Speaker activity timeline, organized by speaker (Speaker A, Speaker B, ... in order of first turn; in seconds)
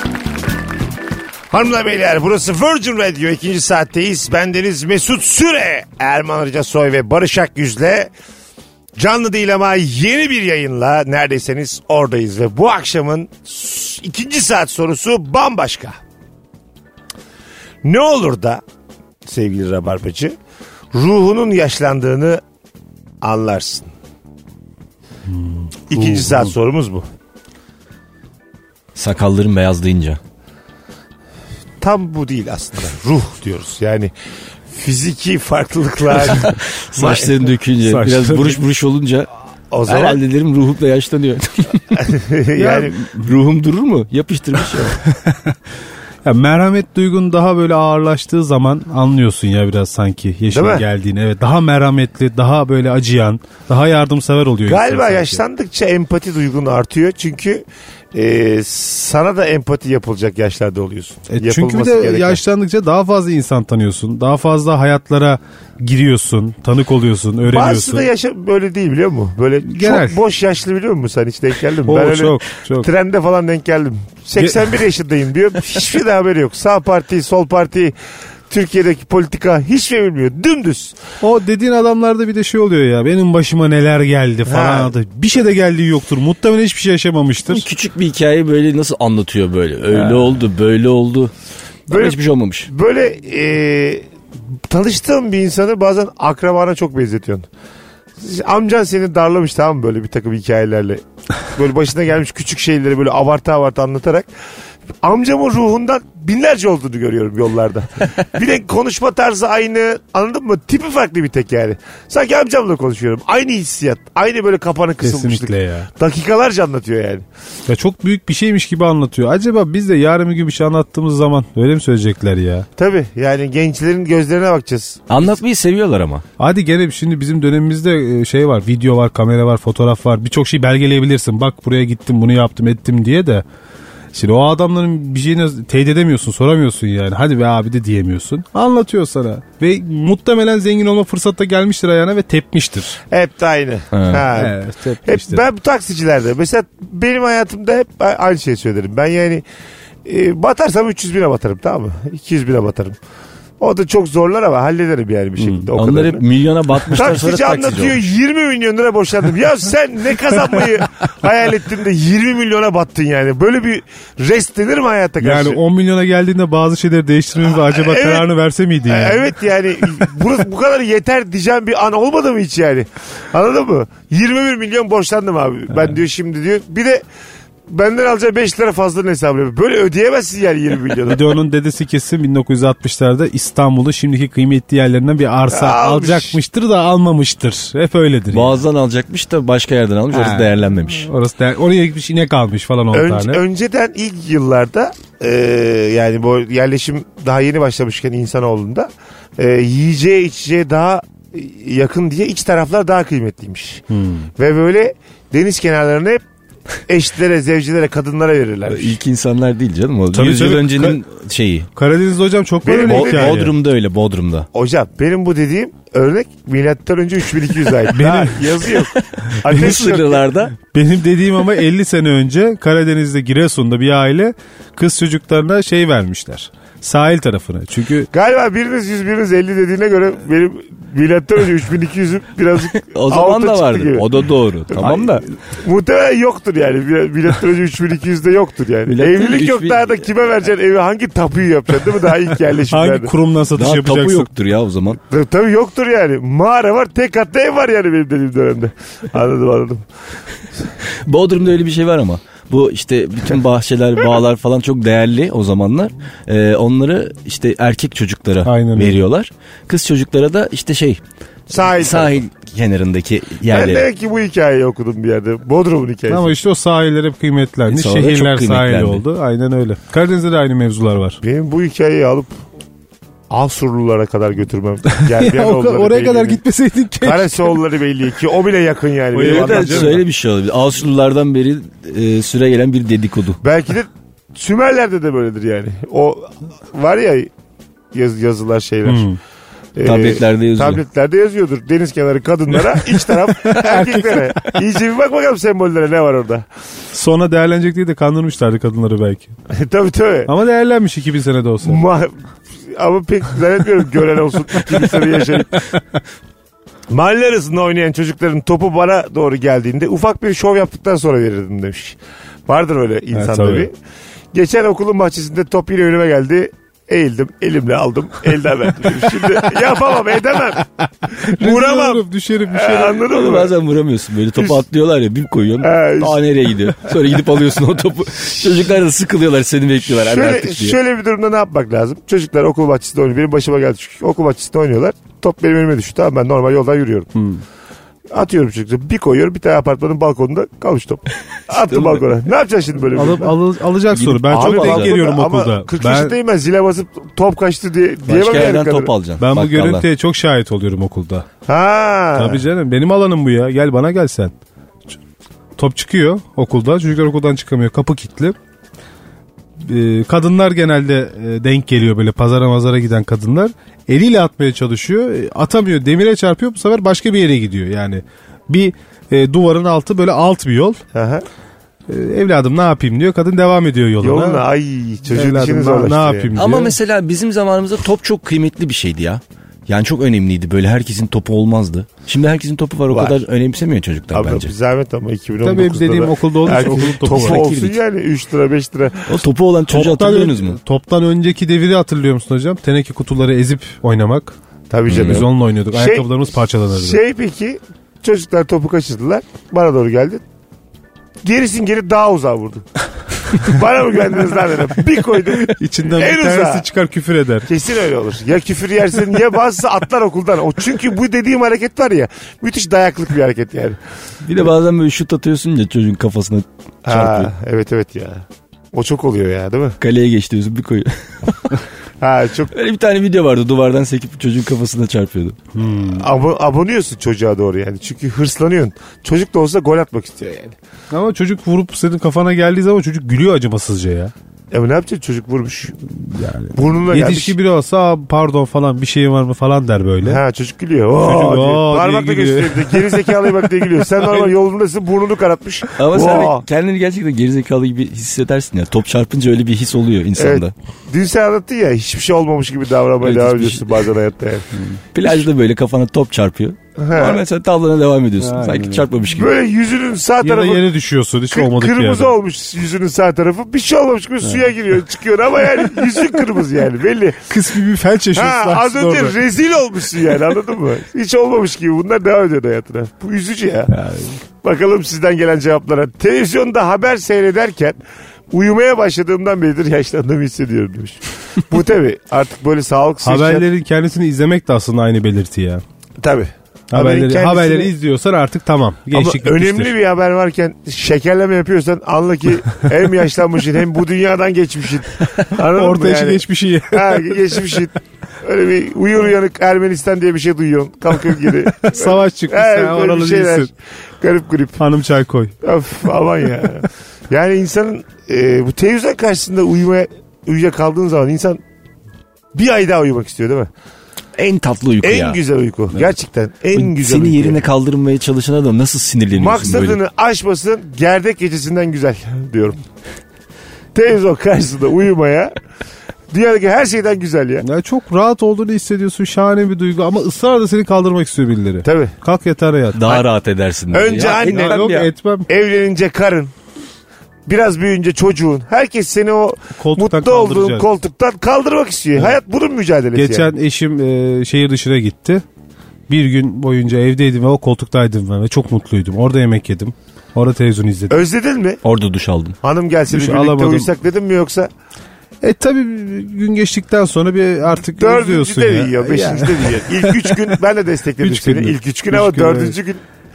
Speaker A: 1.5-8.1, 9.0-16.0, 17.8-18.6, 19.2-20.4, 20.9-22.4, 23.2-23.9, 25.9-27.1, 31.8-34.1, 34.7-37.3, 39.7-40.2, 41.9-42.9, 50.5-50.9, 54.7-62.4, 67.5-78.0, 78.5-81.0, 84.5-84.9, 91.9-94.1, 94.7-97.5, 98.2-104.3, 105.0-117.2, 122.8-125.0, 143.1-149.4, 150.1-153.0, 153.6-156.2, 156.9-165.6, 167.5-168.3, 168.9-177.0, 177.7-181.2, 185.5-186.4, 192.9-203.8, 204.4-206.2, 206.9-209.0, 212.7-213.4, 214.5-220.3, 228.1-234.1, 234.7-243.1, 245.1-249.8, 261.5-262.2, 263.5-266.3, 271.2-272.3, 273.3-276.4, 277.0-280.0, 283.4-287.3, 287.9-289.1, 289.8-296.5, 299.5-300.3, 301.6-305.6, 306.9-313.7, 314.3-323.5, 325.6-326.2, 329.9-337.1, 338.1-343.3, 344.3-348.9, 351.5-352.4, 370.9-371.3, 374.0-376.3, 382.9-383.2, 384.1-389.1, 394.7-396.1, 396.7-400.2, 401.2-402.7, 403.3-406.7, 407.5-413.8, 416.9-419.8, 422.0-422.5, 425.9-430.6, 434.5-435.8, 436.5-437.3, 440.0-446.4, 450.2-454.5, 456.8-457.2, 459.1-460.7, 461.3-467.3, 468.1-473.7, 474.4-477.8, 478.3-483.4, 486.0-487.7, 488.9-504.6, 505.4-511.4, 512.4-513.5, 514.8-517.4, 519.2-522.6, 523.7-525.4, 526.1-527.5, 531.6-532.0, 533.7-536.3, 537.3-543.3, 550.9-551.6, 552.4-554.5, 557.8-562.8
Speaker B: 25.3-26.5, 37.9-38.6, 45.1-45.6, 46.2-55.4, 61.3-68.1, 69.7-70.2, 71.9-72.9, 74.4-74.7, 81.2-87.7, 90.0-90.4, 115.0-115.9, 117.7-122.7, 126.4-133.4, 134.1-143.0, 144.3-145.4, 155.4-155.7, 165.2-169.3, 181.1-188.6, 190.1-193.4, 203.9-204.3, 210.1-211.0, 211.8-213.5, 217.9-218.6, 220.7-228.1, 242.7-244.3, 258.4-259.0, 266.1-271.2, 275.1-277.6, 279.1-280.1, 288.9-289.2, 293.4-294.5, 296.9-299.3, 300.3-301.8, 313.1-313.7, 321.1-323.1, 337.1-337.4, 342.9-346.1, 349.2-351.3, 352.2-354.3, 355.6-358.4, 359.6-370.8, 371.9-374.4, 375.1-376.8, 385.4-387.4, 389.7-394.3, 394.9-397.0, 405.6-407.5, 425.6-426.1, 430.9-434.1, 435.9-440.2, 440.9-444.3, 458.2-458.9, 460.2-462.2, 467.3-469.2, 473.7-474.2, 483.0-485.6, 486.7-489.7, 495.5-497.6, 501.4-503.5, 504.6-505.3, 527.4-533.0, 534.2-535.3, 539.6-540.7, 543.0-545.2, 545.9-551.0, 552.9-553.7, 555.2-560.4, 561.0-562.6
Speaker C: 28.9-30.2, 36.3-39.3, 39.9-42.0, 42.6-45.0, 87.5-91.3, 91.9-92.7, 125.1-126.2, 143.9-144.3, 155.8-158.0, 188.3-191.1, 208.7-211.7, 212.8-214.5, 218.7-220.5, 232.8-235.3, 238.9-239.9, 243.5-245.0, 250.8-261.0, 261.5-263.9, 267.7-269.0, 279.2-283.4, 289.8-290.8, 323.1-330.8, 341.5-342.0, 343.9-345.0, 348.1-349.9, 376.4-384.5, 386.6-387.8, 389.1-390.6, 394.9-395.2, 414.2-417.3, 419.8-421.6, 422.5-425.4, 445.8-450.5, 453.0-453.8, 454.9-459.3, 514.2-515.2, 516.5-519.8, 532.8-534.9, 551.6-552.4